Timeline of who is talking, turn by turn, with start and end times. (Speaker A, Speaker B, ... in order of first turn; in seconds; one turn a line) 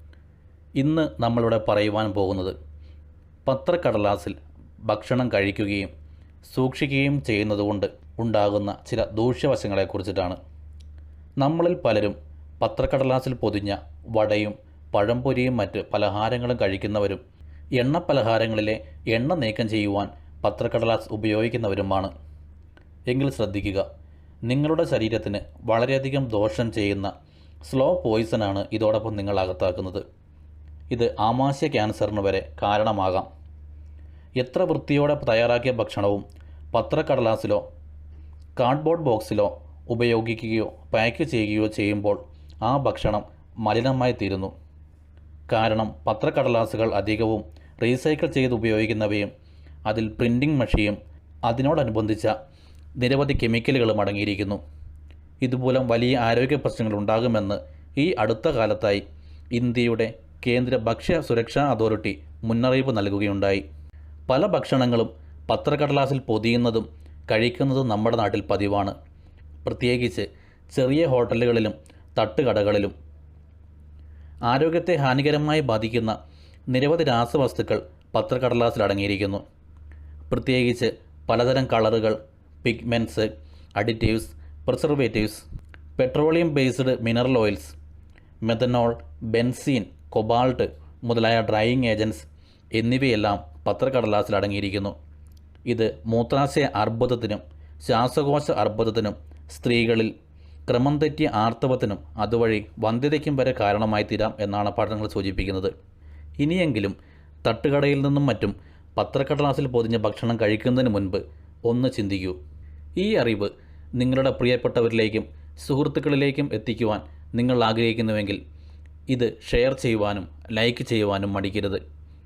Speaker A: 0.8-2.5
Speaker A: 3.5-4.3
Speaker A: 4.9-5.9
Speaker A: 6.5-10.4
Speaker A: 11.4-17.2
Speaker A: 17.8-22.1
Speaker A: 23.1-23.9
Speaker A: 24.4-27.1
Speaker A: 27.6-30.0
Speaker A: 30.9-33.3
Speaker A: 34.4-37.6
Speaker A: 38.6-44.5
Speaker A: 45.5-49.3
Speaker A: 49.9-52.3
Speaker A: 53.0-54.6
Speaker A: 55.4-59.0
Speaker A: 59.5-63.6
Speaker A: 64.3-69.0
Speaker A: 69.6-72.9
Speaker A: 74.5-76.2
Speaker A: 76.7-79.4
Speaker A: 80.3-85.4
Speaker A: 86.0-87.8
Speaker A: 88.4-94.9
Speaker A: 95.7-100.1
Speaker A: 100.7-105.7
Speaker A: 106.4-112.4
Speaker A: 113.0-118.4
Speaker A: 119.1-121.8